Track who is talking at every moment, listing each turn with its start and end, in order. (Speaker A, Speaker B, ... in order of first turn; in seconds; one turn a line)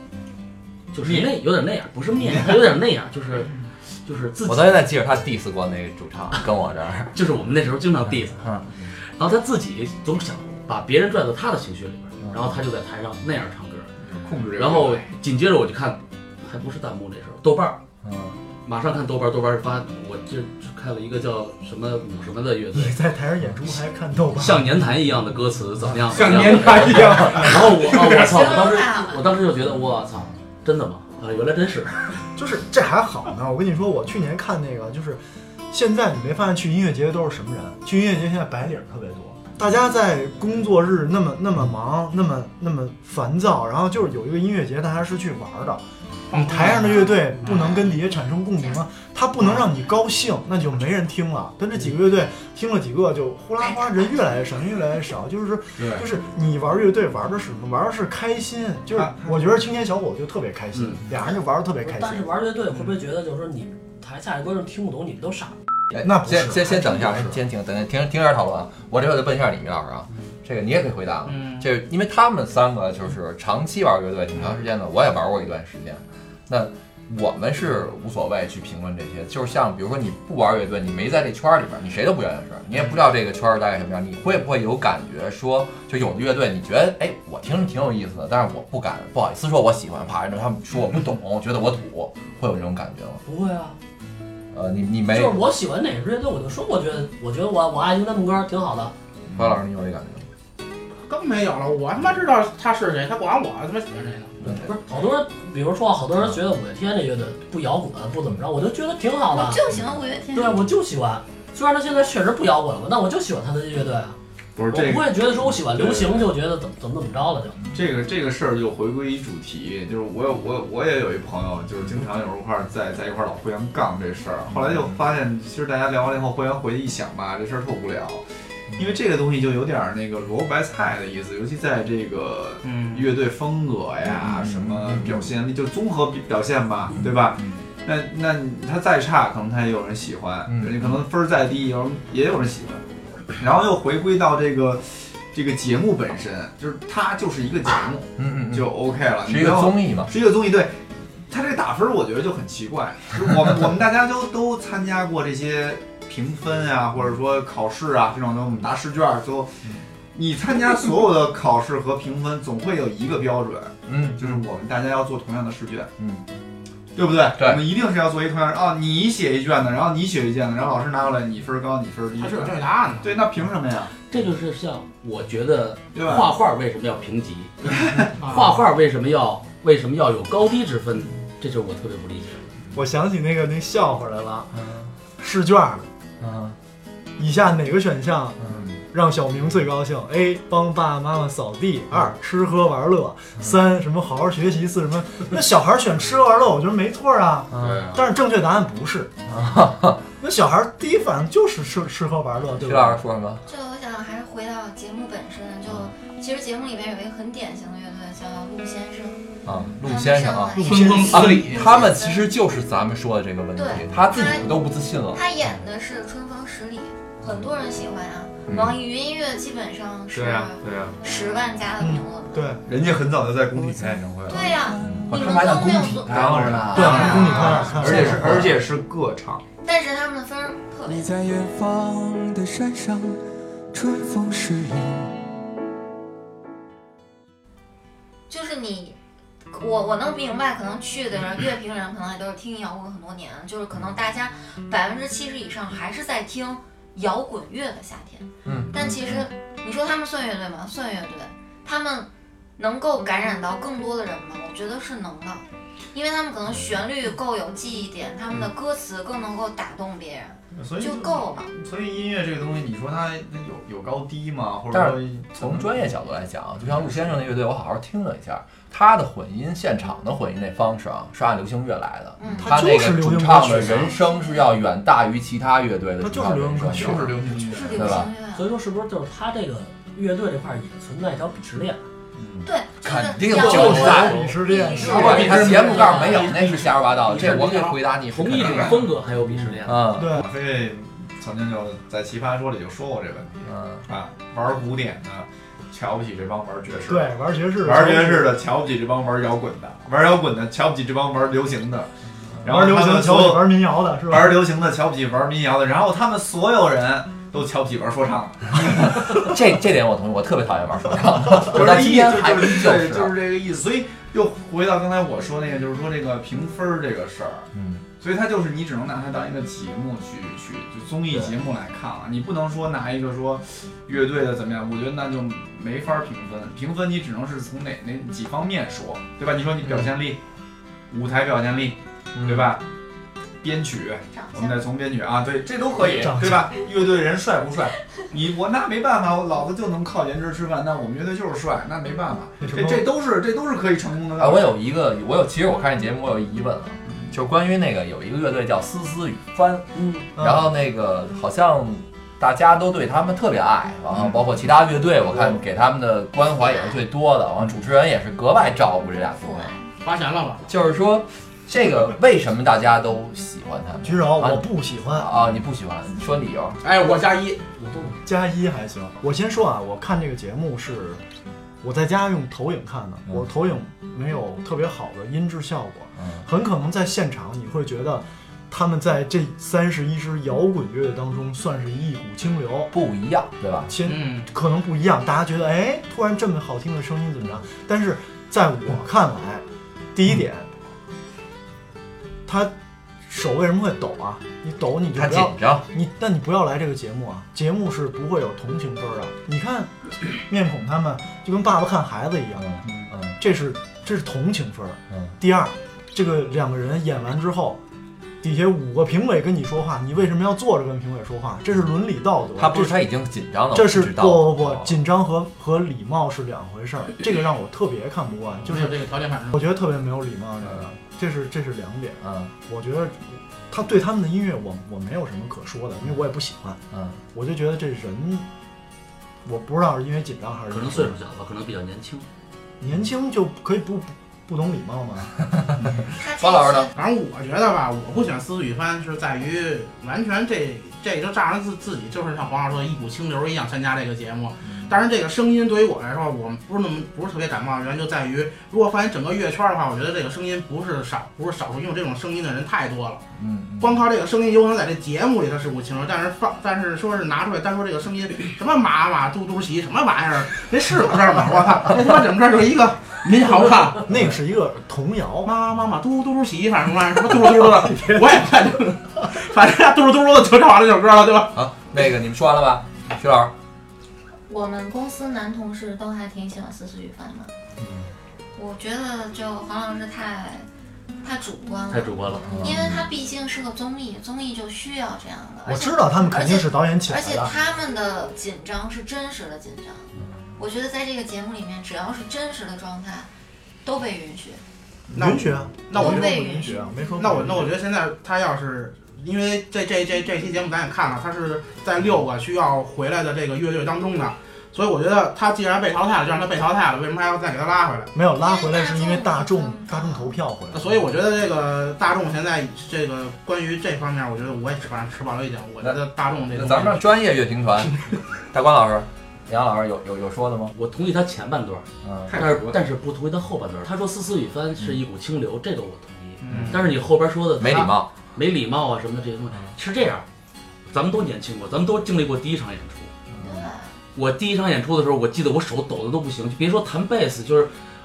Speaker A: 0.9-4.8
Speaker B: 1.0-1.3
Speaker C: 4.4-7.1
Speaker A: 7.1-13.9
Speaker C: 12.2-12.6
Speaker B: 14.0-15.1
Speaker A: 14.6-17.8
Speaker C: 18.0-18.4
Speaker A: 18.6-23.0
Speaker D: 22.7-24.7
Speaker A: 24.3-32.3
Speaker E: 26.1-28.3
Speaker F: 28.1-29.3
Speaker D: 32.4-45.8
Speaker E: 46.3-47.9
Speaker D: 46.4-62.3
Speaker F: 53.6-54.4
Speaker B: 58.9-59.5
Speaker A: 60.7-61.0
Speaker G: 61.8-65.5
Speaker C: 65.9-93.2
Speaker D: 66.0-67.4
Speaker E: 71.2-71.7
Speaker G: 93.2-93.8
Speaker C: 94.5-95.4
Speaker G: 95.1-98.9
Speaker C: 99.3-100.2
Speaker E: 101.0-104.3
Speaker C: 104.4-104.7
Speaker G: 104.6-109.6
Speaker F: 109.3-110.6
Speaker G: 110.3-114.2
Speaker B: 114.5-116.3
Speaker G: 114.7-117.6
Speaker B: 117.7-128.2
Speaker C: 124.5-124.9
Speaker B: 128.8-142.8
Speaker E: 132.6-133.1
Speaker C: 134.1-135.2
Speaker C: 137.0-137.6
Speaker C: 140.5-141.0
Speaker B: 143.3-159.6
Speaker C: 148.2-148.7
Speaker C: 149.2-150.1
Speaker B: 160.1-165.9
Speaker C: 163.8-164.4
Speaker C: 166.0-166.2
Speaker B: 166.9-173.9
Speaker C: 167.4-167.7
Speaker E: 172.2-173.2
Speaker A: 174.1-182.5
Speaker B: 175.9-176.3
Speaker B: 177.8-178.1
Speaker E: 178.2-178.6
Speaker D: 182.7-184.5
Speaker C: 184.5-184.9
Speaker D: 185.2-185.9
Speaker C: 186.2-186.6
Speaker D: 187.2-188.4
Speaker C: 188.4-188.7
Speaker D: 188.9-199.2
Speaker C: 197.5-197.9
Speaker A: 197.6-198.0
Speaker C: 199.3-200.0
Speaker D: 200.2-203.0
Speaker C: 202.6-203.4
Speaker F: 203.4-209.2
Speaker C: 209.4-210.6
Speaker F: 209.8-212.3
Speaker D: 210.6-211.3
Speaker E: 210.6-211.7
Speaker C: 211.1-215.2
Speaker F: 213.5-222.6
Speaker C: 218.5-218.8
Speaker B: 220.1-221.0
Speaker D: 221.8-222.6
Speaker B: 222.7-224.5
Speaker H: 223.5-225.4
Speaker F: 224.3-228.1
Speaker C: 224.8-228.5
Speaker B: 226.0-229.4
Speaker D: 226.7-228.6
Speaker F: 229.6-231.1
Speaker H: 230.8-235.1
Speaker F: 238.3-238.9
Speaker F: 239.5-261.5
Speaker C: 248.4-249.2
Speaker B: 260.5-265.9
Speaker C: 264.7-277.2
Speaker B: 266.6-267.2
Speaker F: 272.2-272.7
Speaker D: 272.4-274.0
Speaker F: 273.7-274.3
Speaker D: 276.0-277.6
Speaker B: 276.7-277.9
Speaker F: 277.4-278.5
Speaker C: 277.7-278.1
Speaker G: 278.3-281.8
Speaker B: 282.2-282.5
Speaker F: 282.4-286.4
Speaker C: 282.8-288.8
Speaker D: 283.3-285.4
Speaker A: 283.7-284.3
Speaker E: 284.9-287.8
Speaker A: 287.0-289.9
Speaker B: 288.4-288.8
Speaker C: 289.6-290.1
Speaker D: 289.9-290.3
Speaker B: 290.0-301.9
Speaker C: 293.5-293.9
Speaker D: 296.9-298.4
Speaker B: 302.4-303.5
Speaker D: 302.4-304.5
Speaker B: 304.1-309.3
Speaker C: 308.7-313.1
Speaker B: 311.4-317.5
Speaker C: 317.5-317.8
Speaker B: 318.0-330.2
Speaker B: 330.9-332.6
Speaker C: 332.1-332.5
Speaker B: 333.4-344.6
Speaker F: 334.1-334.6
Speaker D: 335.8-336.5
Speaker D: 342.4-342.9
Speaker C: 344.2-349.6
Speaker G: 349.7-350.1
Speaker D: 350.2-350.5
Speaker C: 350.2-359.5
Speaker B: 353.9-354.2
Speaker F: 356.3-356.8
Speaker F: 358.9-359.7
Speaker E: 359.8-360.4
Speaker C: 360.5-366.6
Speaker D: 363.8-365.1
Speaker E: 366.6-367.6
Speaker D: 368.0-371.0
Speaker D: 371.6-382.7
Speaker C: 376.0-376.2
Speaker C: 382.7-383.7
Speaker D: 383.7-390.5
Speaker E: 383.8-384.3
Speaker D: 392.2-392.5
Speaker D: 393.0-402.6
Speaker C: 394.9-395.6
Speaker C: 402.4-403.2
Speaker B: 402.6-402.9
Speaker D: 403.2-407.6
Speaker D: 408.2-412.8
Speaker C: 412.4-414.7
Speaker D: 413.5-418.8
Speaker E: 418.4-419.4
Speaker D: 419.3-426.6
Speaker C: 422.0-422.3
Speaker C: 426.7-427.0
Speaker D: 427.1-428.2
Speaker D: 429.2-430.9
Speaker A: 430.5-432.1
Speaker D: 432.6-435.2
Speaker F: 436.0-436.7
Speaker C: 436.2-436.7
Speaker E: 436.7-453.0
Speaker C: 453.2-453.8
Speaker E: 453.6-464.0
Speaker D: 463.9-465.3
Speaker E: 465.2-471.4
Speaker C: 471.3-473.3
Speaker F: 474.3-477.3
Speaker C: 477.6-477.9
Speaker F: 478.4-480.5
Speaker F: 481.0-493.1
Speaker A: 481.7-482.3
Speaker C: 482.2-482.9
Speaker D: 485.4-487.3
Speaker F: 493.6-494.4
Speaker E: 494.9-496.1
Speaker D: 494.9-497.5
Speaker F: 495.7-497.0
Speaker E: 497.0-507.9
Speaker D: 507.9-510.8
Speaker F: 508.2-510.1
Speaker E: 510.5-516.9
Speaker C: 516.3-517.8
Speaker C: 518.3-520.5
Speaker A: 520.5-530.0
Speaker C: 521.8-522.1
Speaker B: 522.0-522.6
Speaker E: 526.2-526.5
Speaker C: 527.4-527.9
Speaker A: 530.7-532.9
Speaker C: 533.1-533.5
Speaker F: 533.2-533.8
Speaker A: 533.9-537.5